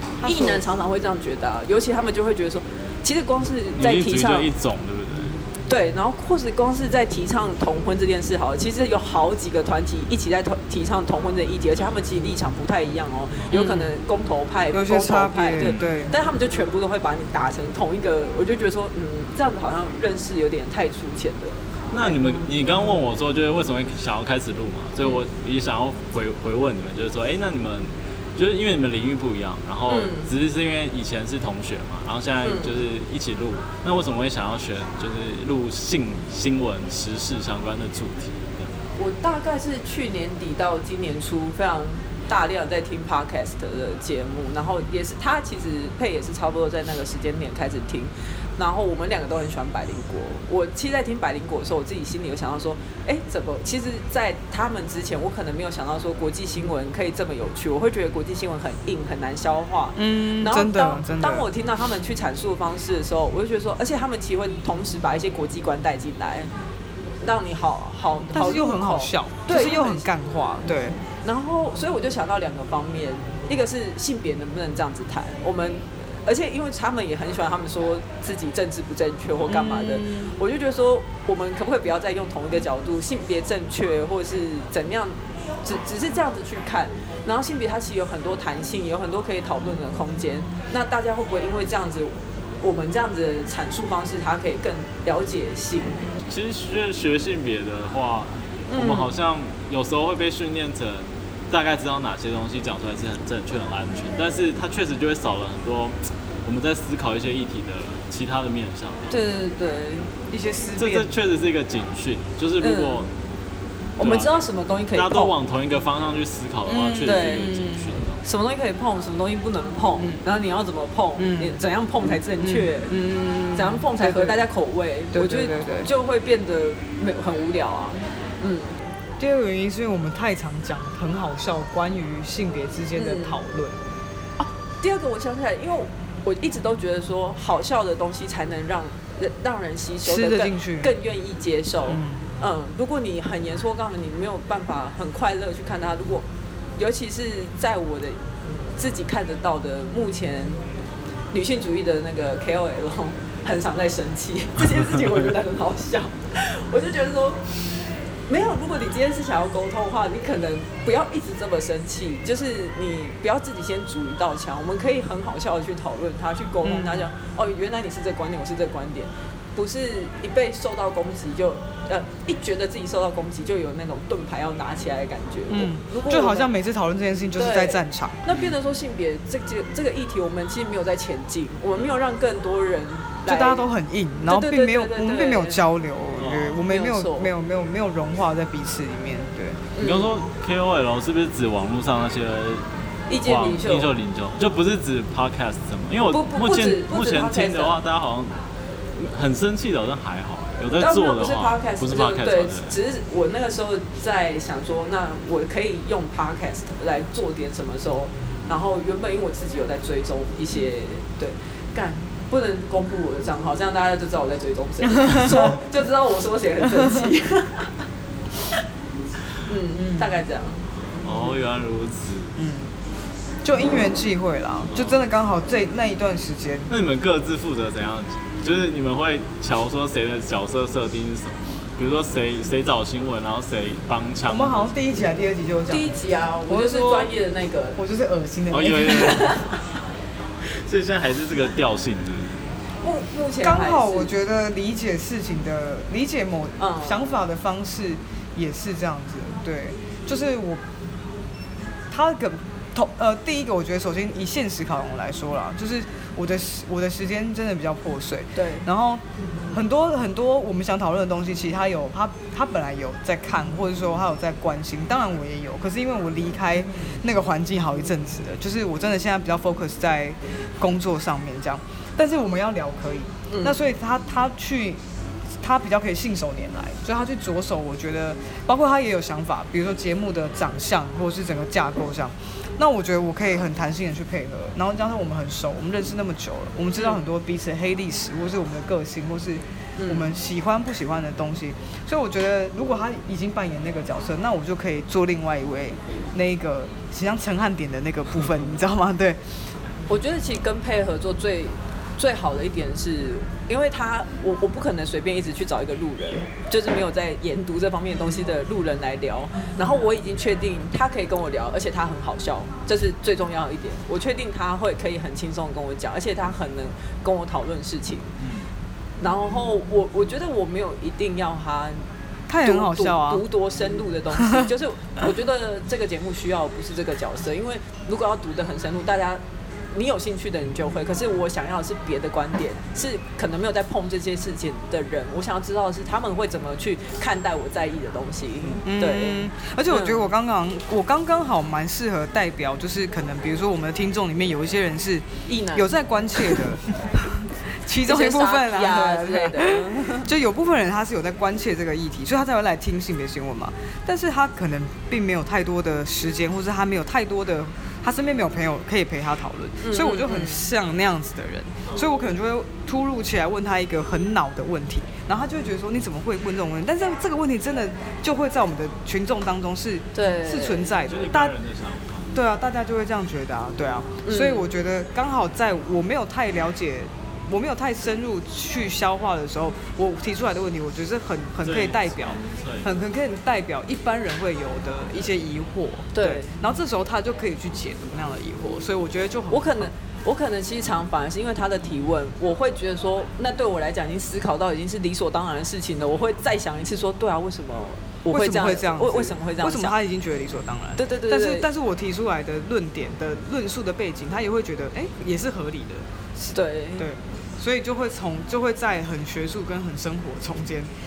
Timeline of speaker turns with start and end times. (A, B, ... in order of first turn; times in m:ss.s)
0:00.2-0:00.6 A
0:00.2-0:04.5 B
0:03.8-0:05.4 C
0:05.7-0:22.2 B
0:13.5-0:13.8 A
0:14.7-0:16.1 A
0:15.6-0:15.9 C
0:21.9-0:38.8 C
0:29.9-0:30.3 B
0:32.4-0:32.7 B
0:39.0-1:06.5 B
1:00.0-1:01.4 A
1:07.2-1:10.1 B
1:08.3-1:11.0 A
1:11.2-1:36.0 B
1:19.5-1:20.3 A
1:36.3-1:49.2 C
1:38.7-1:39.1 B
1:49.1-1:50.1 B
1:50.3-1:51.1 A
1:50.8-1:53.1 C
1:52.6-1:53.0 B
1:54.0-1:55.4 B
1:54.0-1:54.4 C
1:54.9-1:58.2 C
1:56.7-1:57.9 A
1:57.0-1:57.6 B
1:58.2-2:03.0 B
2:01.2-2:01.6 A
2:02.4-2:04.4 A
2:03.5-2:08.8 B
2:05.1-2:05.9 A
2:09.2-2:13.8 A
2:13.0-2:13.4 B
2:14.4-2:26.3 B
2:20.0-2:20.9 A
2:21.9-2:22.2 A
2:26.8-2:28.2 B
2:28.8-2:30.6 B
2:31.3-2:37.4 B
2:38.3-2:56.5 B
2:46.6-2:47.1 A
2:55.5-2:58.2 A
2:57.4-3:03.7 B
3:03.3-3:09.6 A
3:04.3-3:05.6 B
3:06.2-3:06.7 C
3:06.7-3:07.3 B
3:09.8-3:10.1 B
3:09.8-3:12.7 C
3:13.1-3:13.9 B
3:13.2-3:18.4 C
3:16.1-3:17.8 B
3:19.0-3:22.8 C
3:20.7-3:37.8 B
3:35.0-3:35.6 A
3:39.5-3:40.7 B
3:41.0-3:42.3 C
3:42.4-3:42.7 A
3:43.4-3:46.7 A
3:46.7-3:54.6 C
3:54.3-3:55.9 A
3:55.7-3:57.8 B
3:56.5-3:57.1 A
3:57.8-3:59.2 A
3:58.5-3:59.4 C
3:58.8-3:59.5 B
4:00.5-4:02.4 C
4:02.8-4:04.1 B
4:03.4-4:10.6 A
4:06.6-4:07.0 B
4:11.9-4:34.8 A
4:18.4-4:18.6 B
4:33.3-4:33.6 B
4:35.4-4:59.2 A
4:49.8-4:50.1 B
4:59.9-5:18.1 B
5:18.2-5:18.5 C
5:19.0-5:21.8 B
5:22.3-5:23.2 A
5:22.4-5:40.1 B
5:38.6-6:11.3 A
5:45.3-5:45.7 B
5:47.9-5:50.1 B
5:59.6-6:00.5 B
6:09.9-6:10.8 B
6:10.8-6:12.1 C
6:12.1-6:29.7 A
6:14.0-6:14.5 B
6:21.4-6:22.7 C
6:25.9-6:26.4 B
6:29.3-6:39.8 B
6:38.1-6:50.7 A
6:40.8-6:41.5 B
6:46.3-6:46.9 B